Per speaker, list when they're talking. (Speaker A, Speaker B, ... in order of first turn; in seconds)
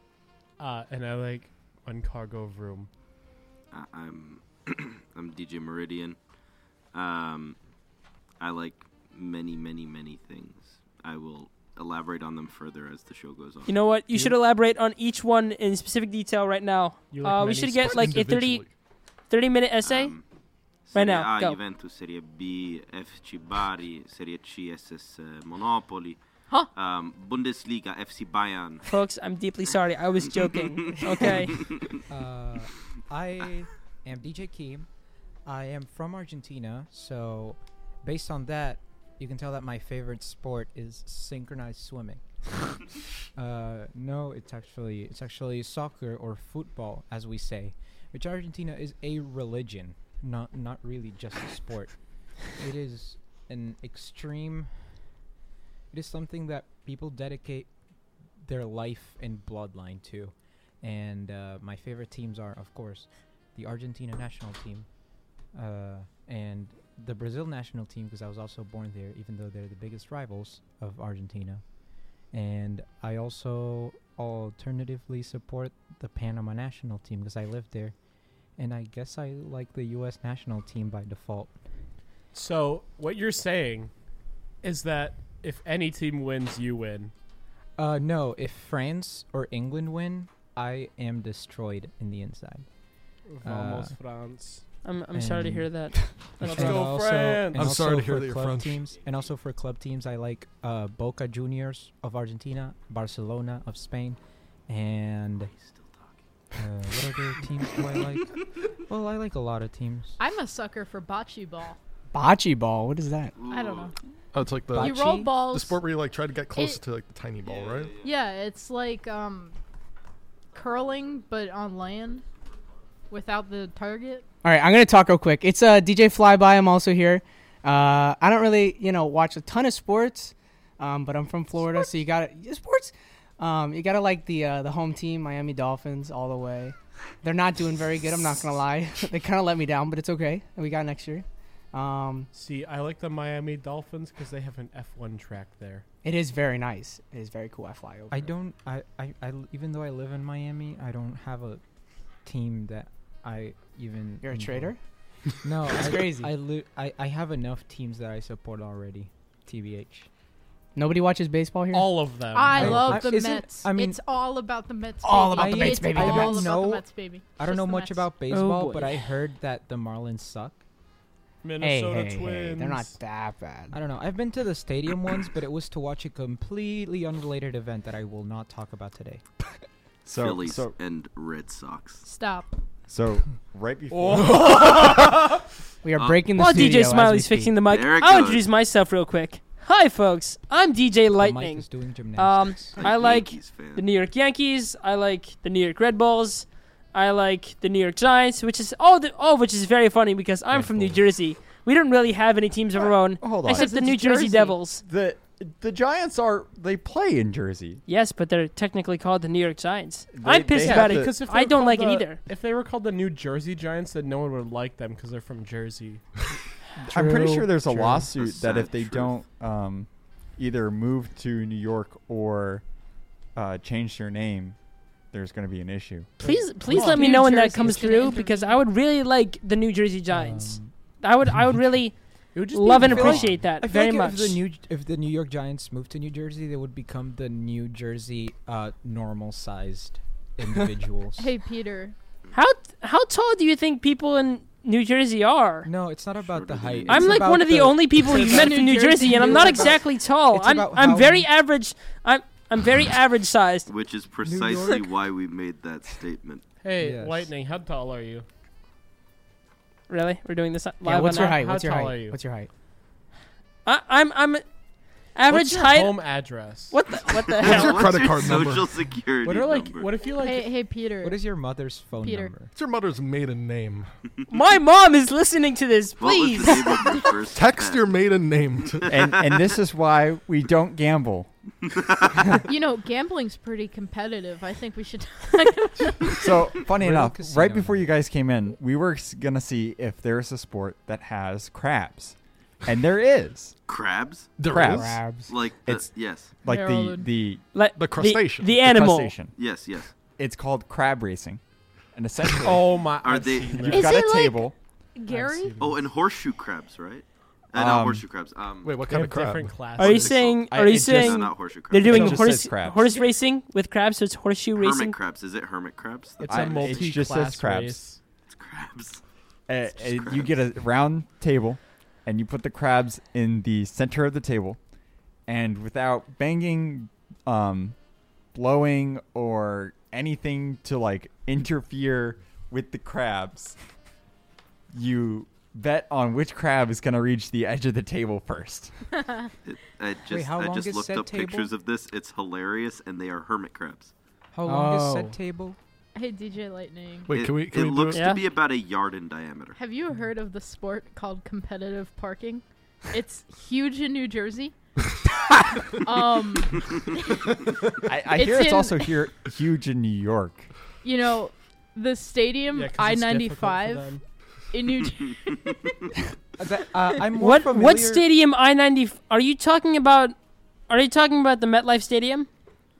Speaker A: 0.6-2.9, 17.1-18.2, 82.3-83.9, 84.6-87.1, 93.2-94.7, 96.4-97.7, 142.3-145.8, 161.7-163.0, 171.4-173.0, 210.6-216.0, 226.2-227.3, 232.3-233.5, 256.6-258.2, 261.2-262.2, 265.3-266.8, 269.2-270.6, 302.4-304.0, 305.1-305.9, 308.8-310.3, 316.2-318.0, 362.5-364.0
Speaker B: 3.7-6.2, 6.9-7.6, 8.4-13.8, 19.8-20.2, 20.8-28.8, 31.5-32.0, 105.6-106.1, 113.3-113.9, 117.4-118.0, 180.1-182.0, 185.9-186.2, 187.7-188.4, 192.8-193.8, 218.1-219.2, 246.2-247.2, 253.7-256.4, 267.4-269.9, 276.0-278.0, 278.7-279.4, 293.7-296.3, 299.4-299.9, 303.0-303.8, 305.6-308.8, 309.8-312.2, 314.6-316.9, 318.3-319.0, 319.7-320.4, 339.4-343.9, 347.1-349.6
Speaker C: 13.7-18.7, 19.3-20.1, 20.9-21.6, 28.8-31.7, 94.8-96.9, 186.3-204.8, 207.8-212.2, 226.2-234.4, 242.3-245.7, 246.9-253.7, 259.9-261.4, 263.6-264.4, 265.0-266.1, 266.7-267.8, 274.3-277.0, 297.5-299.1, 309.8-315.0, 347.9-348.2, 367.2-372.3
Speaker D: 17.4-18.7, 97.5-98.8, 114.3-118.0, 184.0-184.6, 267.4-268.7, 272.5-273.9, 277.3-278.9, 294.4-295.1, 297.8-298.6, 308.6-309.7, 347.1-348.1
Speaker E: 32.1-34.9, 35.5-42.2, 43.3-55.1, 55.9-57.7, 58.4-65.0, 65.5-71.7, 72.3-77.9, 78.6-81.5, 87.8-92.7, 93.4-94.0, 95.1-105.5, 106.5-110.2, 114.7-115.3, 148.1-151.6, 152.2-160.1, 162.5-164.0, 165.3-170.6, 173.7-179.2, 191.2-192.8, 216.9-217.8, 230.1-230.7, 232.7-241.3, 245.6-248.6, 249.1-251.3, 254.2-254.9, 256.8-257.3, 271.0-272.5, 286.7-287.9, 340.1-341.5, 344.3-345.6, 366.4-368.0
Speaker F: 110.2-111.8, 113.4-113.9, 114.8-116.0, 116.5-116.8, 118.0-119.6, 120.5-122.2, 123.1-124.2, 162.3-168.1, 182.0-182.5, 203.5-203.8, 226.8-228.6, 241.2-241.9, 248.0-249.8, 270.1-271.2, 272.0-272.3, 282.5-286.4, 296.4-297.1, 303.7-305.6, 345.9-347.1, 349.5-354.6, 355.6-357.4, 358.1-359.1, 360.8-364.0, 364.5-365.7
Speaker G: 112.1-113.3, 124.4-142.3, 146.0-148.3, 154.2-154.8, 155.7-156.3, 160.7-161.9, 165.0-166.5, 168.3-168.9, 171.6-173.8, 185.8-187.6, 216.9-217.5, 226.7-228.1, 260.8-262.5, 294.7-295.3, 344.4-345.2
Speaker H: 180.0-180.8, 182.9-185.4, 202.8-207.8, 210.1-211.2, 216.8-222.6, 223.3-224.6, 225.1-226.2, 278.9-281.3, 286.1-293.5, 294.4-297.4, 298.6-299.4, 300.1-301.4, 301.9-302.8, 303.6-304.6, 307.5-308.0, 310.4-312.9, 316.2-317.8, 319.5-324.6, 325.3-327.8, 328.3-333.6, 334.7-338.7, 357.8-360.5